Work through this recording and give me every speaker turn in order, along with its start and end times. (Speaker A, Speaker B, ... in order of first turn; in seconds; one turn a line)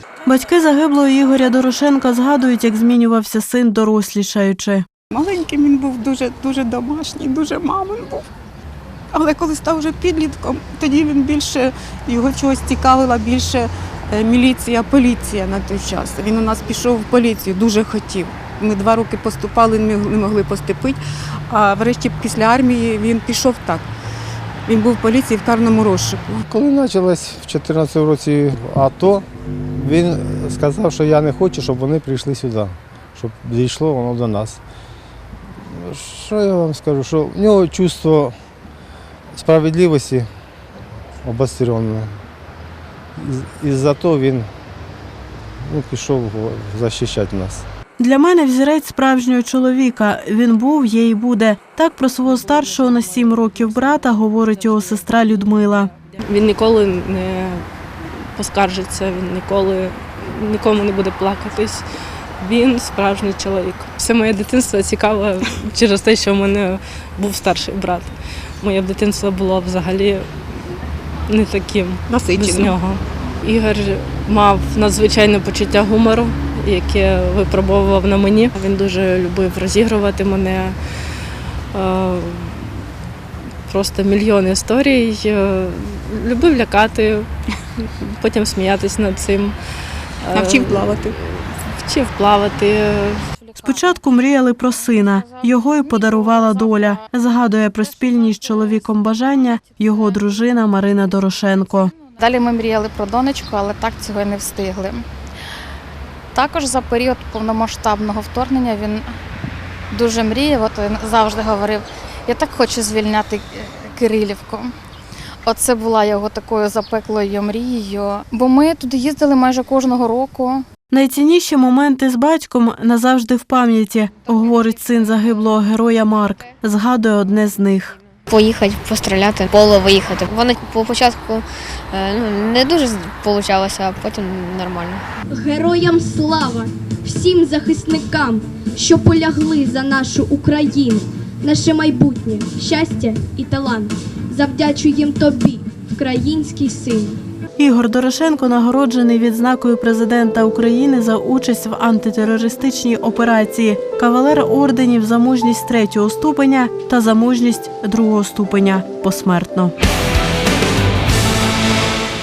Speaker A: 0.2-4.8
Speaker B: 5.2-8.2
Speaker B: 9.1-23.9
Speaker B: 24.7-26.4
Speaker C: 26.5-34.6
Speaker C: 35.6-38.4
Speaker C: 39.3-40.3
Speaker C: 41.2-42.2
Speaker C: 43.2-44.5
Speaker C: 45.6-47.6
Speaker A: 48.0-55.9
Speaker D: 56.2-57.6
Speaker D: 58.4-61.8
Speaker D: 62.4-70.5
Speaker D: 71.3-80.8
Speaker B: 72.1-72.7
Speaker D: 81.7-82.8
Speaker D: 83.7-87.3
Speaker D: 87.8-89.5
Speaker D: 90.2-93.2
Speaker B: 90.3-91.1
Speaker A: 93.6-102.0
Speaker E: 102.1-105.0
Speaker E: 106.3-109.1
Speaker E: 109.9-114.7
Speaker E: 115.4-120.6
Speaker A: 120.9-128.0
Speaker F: 128.3-135.0
Speaker G: 135.3-147.2
Speaker A: 147.6-159.7